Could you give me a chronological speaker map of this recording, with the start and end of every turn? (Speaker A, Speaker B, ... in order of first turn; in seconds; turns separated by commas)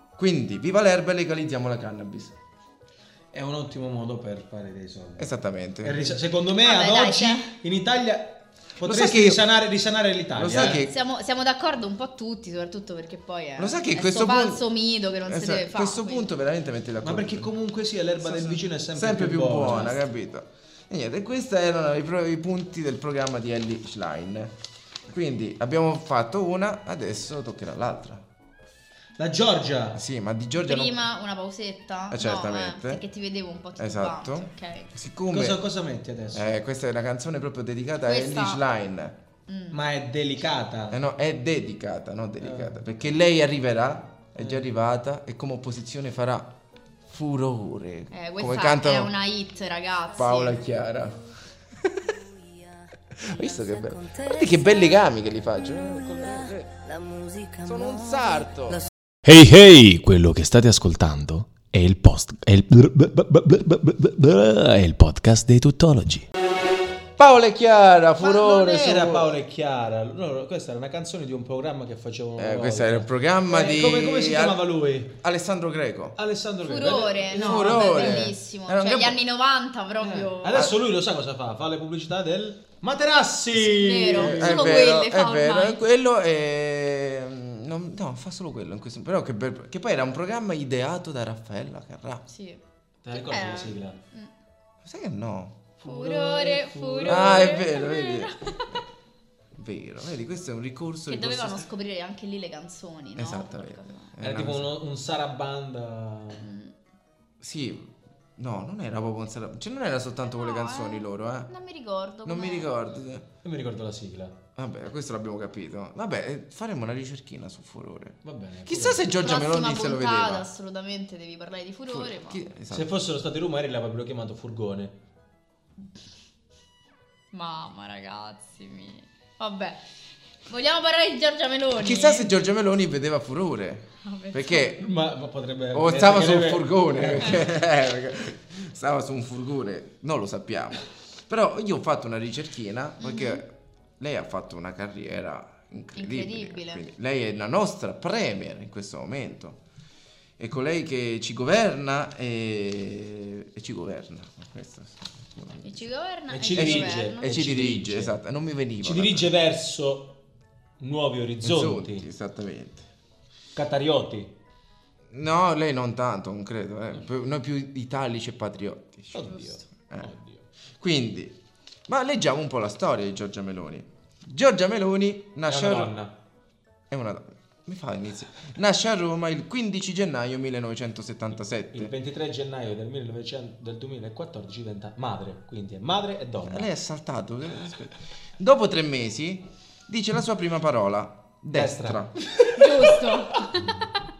Speaker A: 0.2-2.4, Speaker B: 3.3-5.3, Speaker A: 5.2-6.2, Speaker B: 5.8-10.8, Speaker C: 6.6-7.5, Speaker A: 8.8-9.4, Speaker A: 10.3-10.9, Speaker C: 10.5-16.3, Speaker A: 13.6-14.7, Speaker A: 15.3-17.5, Speaker B: 17.0-20.0, Speaker A: 18.2-24.5, Speaker A: 25.1-28.2, Speaker B: 29.2-30.0, Speaker A: 29.9-31.0, Speaker C: 30.6-34.9, Speaker A: 32.1-33.0, Speaker A: 33.8-35.6, Speaker B: 35.3-36.5, Speaker A: 36.3-39.2, Speaker C: 38.0-38.6, Speaker C: 39.5-39.8, Speaker B: 39.7-41.0, Speaker A: 40.9-46.5, Speaker B: 42.4-42.8, Speaker A: 47.1-49.1, Speaker C: 48.1-50.6, Speaker A: 50.1-52.2, Speaker A: 53.1-58.9, Speaker D: 59.2-66.3, Speaker A: 67.2-69.4, Speaker B: 68.2-75.1, Speaker A: 72.4-76.2, Speaker B: 76.2-78.3, Speaker C: 76.6-80.7, Speaker A: 77.4-79.2, Speaker B: 80.0-84.8, Speaker C: 83.6-85.8, Speaker A: 84.1-92.2, Speaker C: 92.3-92.6, Speaker B: 93.0-94.0, Speaker C: 93.1-94.3, Speaker A: 94.8-95.6, Speaker B: 95.8-97.6, Speaker C: 95.8-98.8, Speaker A: 97.0-98.3, Speaker A: 99.5-101.7, Speaker C: 101.1-104.1, Speaker A: 103.2-104.7, Speaker B: 104.2-106.4, Speaker C: 106.4-106.7, Speaker A: 107.4-111.5, Speaker C: 110.3-112.7, Speaker A: 112.2-113.3, Speaker B: 113.4-114.4, Speaker A: 114.6-120.5, Speaker B: 118.2-119.1, Speaker C: 119.2-122.5, Speaker A: 121.9-122.9, Speaker B: 122.7-125.0, Speaker C: 127.3-129.8, Speaker C: 130.5-132.3, Speaker A: 131.8-134.9, Speaker C: 134.0-134.8, Speaker B: 134.8-137.5, Speaker A: 135.7-149.6, Speaker C: 143.0-143.4, Speaker C: 146.0-146.8, Speaker A: 150.4-155.9, Speaker C: 155.6-157.7, Speaker B: 156.3-158.1, Speaker A: 156.6-159.3, Speaker B: 158.8-160.2, Speaker B: 160.8-162.1, Speaker A: 161.4-162.9, Speaker B: 163.6-164.3, Speaker A: 165.1-169.4, Speaker B: 169.1-170.4, Speaker A: 170.8-171.4, Speaker A: 171.9-176.0, Speaker B: 175.5-176.1, Speaker A: 176.9-181.9, Speaker B: 181.7-186.7, Speaker A: 186.5-192.2, Speaker B: 191.5-193.4, Speaker C: 192.5-193.7